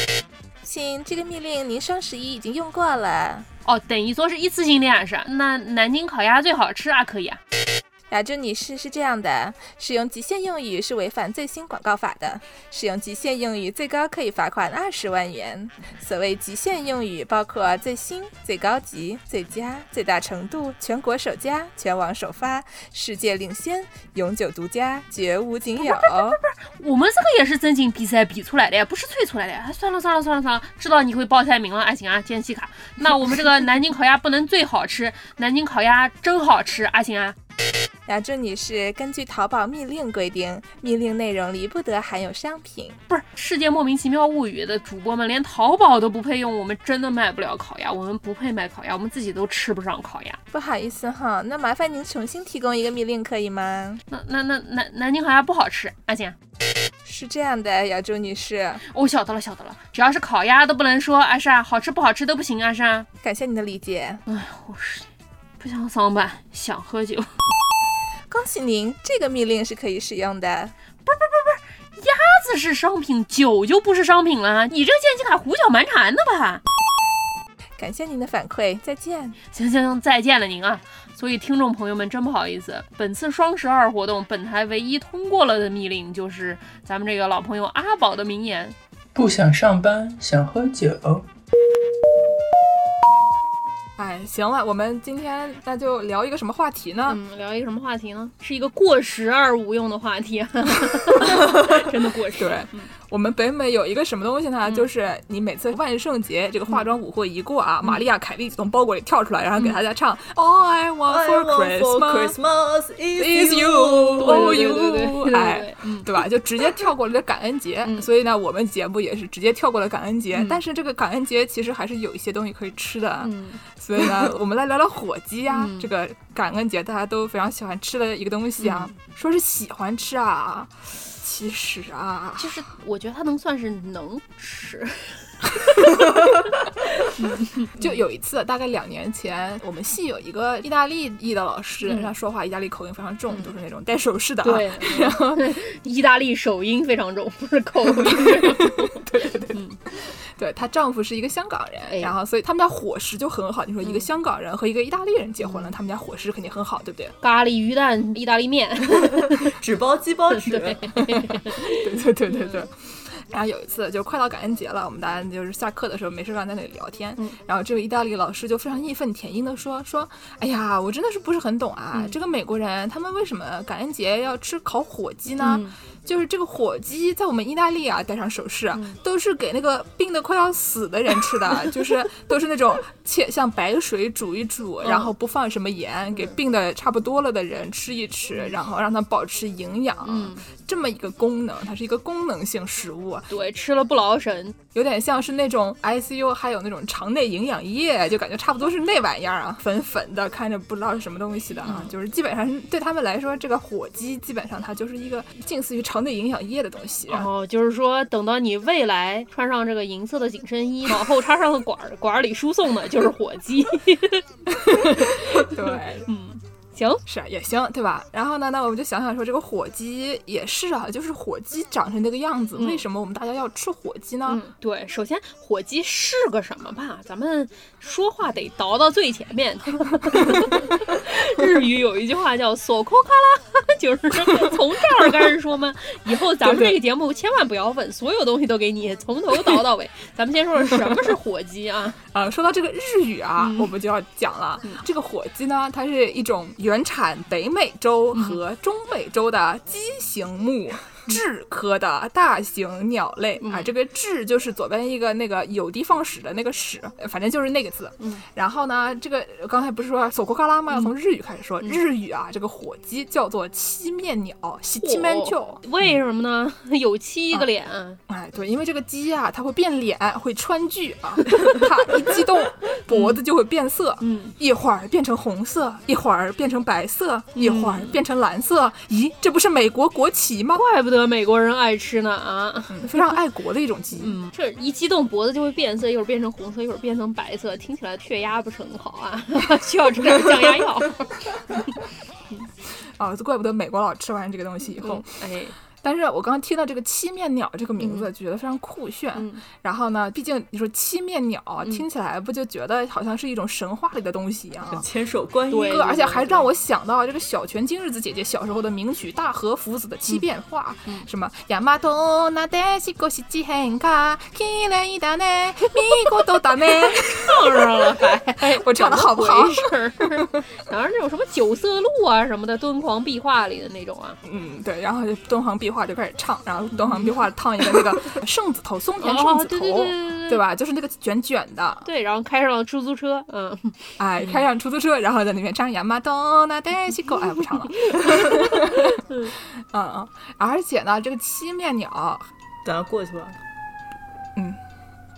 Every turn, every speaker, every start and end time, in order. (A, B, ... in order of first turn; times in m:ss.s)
0:00.6-0:03.4 A
0:03.6-0:07.4 B
0:08.1-0:26.4 A
0:25.8-0:37.4 B
0:33.0-0:33.4 A
0:38.1-0:43.0 A
0:43.1-0:50.4 B
0:50.5-0:54.0 A
0:54.1-0:56.4 B
0:57.0-0:58.8 A
0:58.8-1:03.1 B
1:03.2-1:04.2 A
1:04.3-1:05.1 B
1:05.6-1:07.3 B
1:08.3-1:10.7 A
1:11.0-1:16.6 B
1:17.8-1:19.4 A
1:19.5-1:28.7 B
1:29.1-1:31.3 C
1:34.0-1:37.2 A
1:37.0-1:42.9 B
1:42.3-1:52.4 A
1:51.1-1:54.8 D
1:53.2-2:12.5 A
1:54.2-1:56.1 B
2:03.2-2:03.6 B
2:05.5-2:05.9 B
2:08.6-2:08.9 B
2:12.4-2:16.2 B
2:17.0-2:17.7 B
2:17.8-2:25.5 A
2:21.8-2:22.1 B
2:24.4-2:29.8 B
2:27.9-2:37.1 A
2:31.9-2:32.1 B
2:35.4-2:35.7 B
2:37.2-2:39.5 B
2:39.4-2:40.9 D
2:40.4-2:42.6 B
2:41.1-3:13.3 A
2:55.4-2:55.7 B
3:04.8-3:05.1 B
3:10.0-3:10.4 B
3:13.3-3:14.6 B
3:14.7-3:27.3 A
3:21.6-3:21.9 B
3:27.1-3:37.0 B
3:34.5-3:36.1 A
3:37.0-3:44.4 A
3:42.6-3:42.8 B
3:44.2-4:02.0 B
3:54.3-3:55.0 A
3:56.4-3:56.8 A
4:00.7-4:01.0 A
4:02.1-4:25.6 A
4:03.4-4:03.7 B
4:08.1-4:08.4 B
4:13.4-4:13.7 B
4:24.8-4:28.0 B
4:28.1-4:40.6 A
4:32.9-4:33.2 B
4:34.0-4:34.3 B
4:37.3-4:38.0 B
4:40.5-4:43.0 B
4:42.7-4:44.2 A
4:44.0-4:51.2 B
4:53.0-4:55.1 A
4:54.8-4:55.5 B
4:55.8-5:04.8 A
4:57.8-4:58.1 B
4:59.2-4:59.4 B
5:04.7-5:05.9 D
5:05.5-5:06.4 B
5:05.5-5:17.7 A
5:16.7-5:24.2 B
5:18.4-5:19.7 A
5:24.2-5:31.9 A
5:29.0-5:30.4 B
5:31.8-5:34.3 B
5:34.0-5:39.0 A
5:37.8-5:39.3 B
5:39.7-5:42.3 A
5:42.6-5:43.4 D